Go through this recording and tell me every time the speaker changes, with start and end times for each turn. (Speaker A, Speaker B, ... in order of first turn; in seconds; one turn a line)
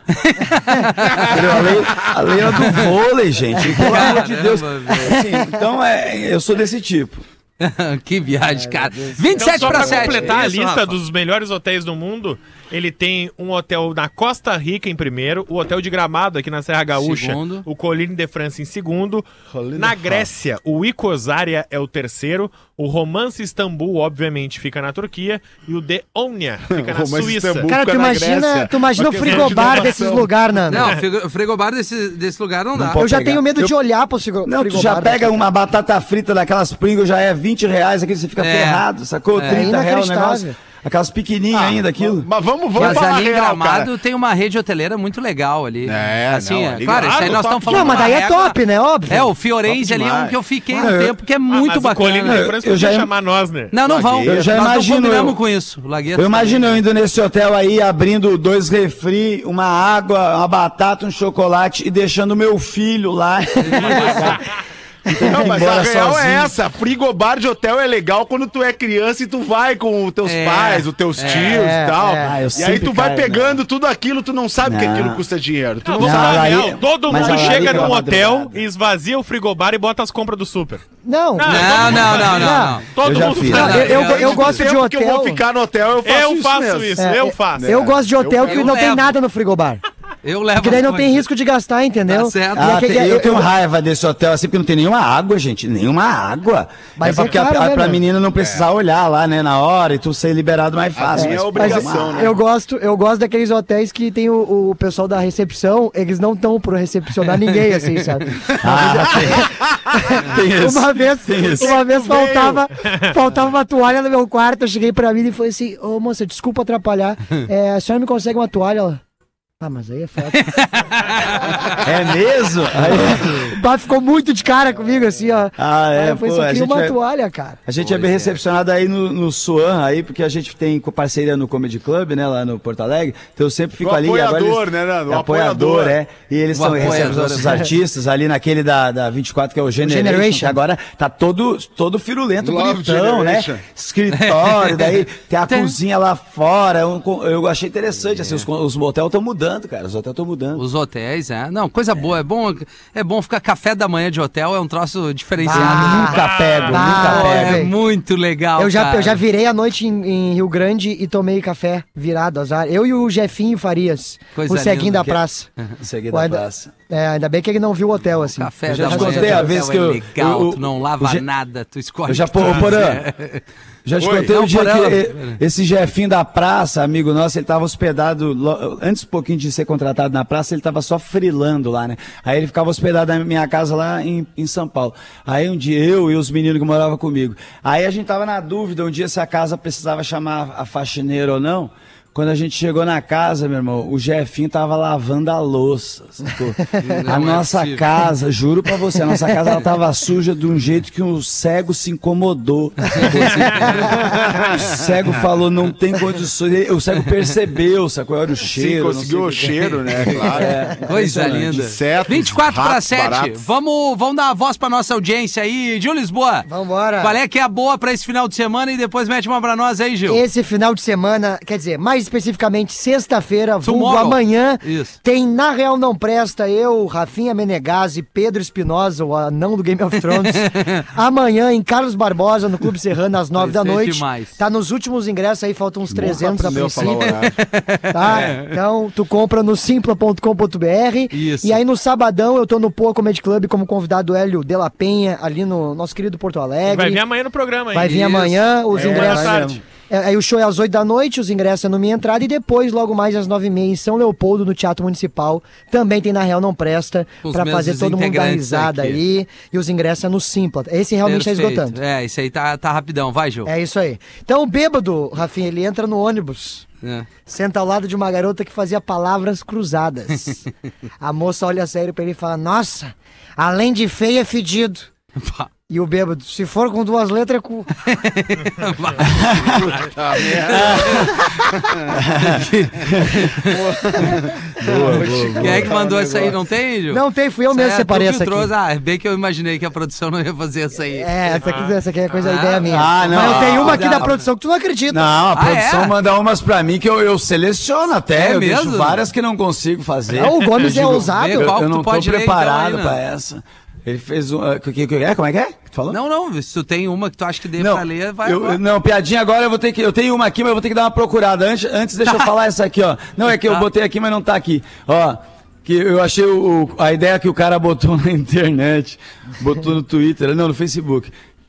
Speaker A: 0.1-1.4
Speaker B: 1.1-2.1
Speaker C: 1.3-7.2
Speaker A: 2.6-2.9
Speaker A: 3.6-5.1
Speaker D: 5.0-5.5
Speaker A: 7.6-11.0
Speaker D: 8.5-10.2
Speaker E: 9.4-27.7
Speaker A: 16.9-17.6
Speaker B: 19.5-20.3
Speaker B: 26.7-30.3
Speaker D: 27.7-30.9
Speaker E: 29.3-29.8
Speaker A: 30.7-33.0
Speaker E: 30.7-31.0
Speaker C: 32.7-33.8
Speaker D: 33.0-35.3
Speaker C: 34.4-42.3
Speaker A: 38.4-39.7
Speaker D: 39.4-40.5
Speaker B: 41.5-43.9
Speaker A: 42.7-48.6
Speaker B: 45.8-48.0
Speaker E: 46.9-48.1
Speaker D: 47.7-49.3
Speaker A: 49.1-52.4
Speaker B: 49.7-50.4
Speaker C: 50.8-51.2
Speaker E: 51.5-53.7
Speaker C: 52.2-53.1
Speaker A: 53.7-56.8
Speaker B: 53.8-54.6
Speaker C: 54.2-55.4
Speaker C: 56.1-64.4
Speaker A: 63.6-64.4
Speaker C: 65.2-66.5
Speaker B: 65.2-78.0
Speaker A: 70.2-71.5
Speaker D: 71.4-72.4
Speaker C: 72.2-73.6
Speaker C: 74.6-75.2
Speaker E: 75.8-80.8
Speaker C: 76.0-78.6
Speaker D: 81.0-85.4
Speaker E: 81.3-84.0
Speaker A: 81.5-82.8
Speaker C: 83.0-84.0
Speaker A: 83.4-84.6
Speaker B: 83.8-87.0
Speaker E: 86.0-87.7
Speaker D: 87.0-89.8
Speaker B: 87.5-88.7
Speaker A: 88.4-89.1
Speaker A: 90.2-91.2
Speaker D: 90.5-93.5
Speaker A: 92.1-92.8
Speaker C: 92.5-102.3
Speaker D: 97.0-98.0
Speaker B: 101.0-102.4
Speaker D: 101.2-119.0
Speaker C: 108.6-109.5
Speaker B: 109.7-109.9
Speaker C: 110.2-111.8
Speaker B: 111.4-112.6
Speaker E: 112.8-113.1
Speaker D: 119.6-120.6
Speaker A: 120.3-121.7
Speaker C: 121.8-123.4
Speaker D: 123.3-127.6
Speaker C: 125.6-127.0
Speaker C: 127.7-150.6
Speaker A: 127.8-128.3
Speaker B: 133.8-136.0
Speaker A: 136.5-137.7
Speaker D: 139.8-140.6
Speaker B: 142.4-143.6
Speaker A: 144.1-145.8
Speaker A: 150.5-156.2
Speaker D: 155.4-157.7
Speaker C: 155.5-157.7
Speaker E: 156.1-156.8
Speaker A: 156.7-159.2
Speaker D: 158.6-165.5
Speaker A: 164.3-165.7
Speaker C: 165.8-166.7
Speaker D: 166.1-169.5
Speaker A: 168.3-173.4
Speaker C: 168.7-171.2
Speaker C: 172.1-173.0
Speaker C: 173.8-211.6
Speaker B: 174.0-174.3
Speaker A: 174.1-175.4
Speaker A: 196.8-197.8
Speaker A: 202.9-204.0
Speaker B: 204.0-204.8
Speaker B: 208.5-210.6
Speaker A: 209.6-210.1
Speaker A: 210.8-216.5
Speaker B: 211.5-213.4
Speaker D: 216.5-217.2
Speaker A: 217.0-220.2
Speaker D: 220.1-237.2
Speaker A: 223.6-225.0
Speaker A: 230.1-230.8
Speaker A: 233.3-234.4
Speaker B: 236.0-237.4
Speaker A: 236.7-238.5
Speaker D: 237.9-247.0
Speaker A: 241.1-241.6
Speaker E: 246.7-248.1
Speaker D: 247.7-261.8
Speaker A: 247.9-248.4
Speaker E: 248.7-249.6
Speaker C: 248.7-249.6
Speaker A: 257.2-259.0
Speaker A: 261.0-263.5
Speaker D: 263.4-266.6
Speaker A: 266.8-267.1
Speaker D: 267.2-270.4
Speaker D: 271.0-274.9
Speaker A: 275.2-275.5
Speaker D: 275.7-277.7
Speaker A: 277.8-281.2
Speaker C: 279.0-279.7
Speaker B: 279.7-281.8
Speaker C: 280.4-281.3
Speaker C: 281.9-283.2
Speaker A: 282.2-283.6
Speaker B: 283.4-286.4
Speaker C: 284.6-285.7
Speaker A: 285.3-291.4
Speaker D: 286.9-288.5
Speaker D: 290.9-295.1
Speaker E: 291.4-291.8
Speaker A: 292.2-294.2
Speaker C: 292.7-294.2
Speaker C: 294.9-306.0
Speaker A: 295.3-295.9
Speaker A: 298.1-299.0
Speaker D: 300.1-301.6
Speaker A: 300.8-303.0
Speaker A: 305.9-308.6
Speaker C: 307.6-321.1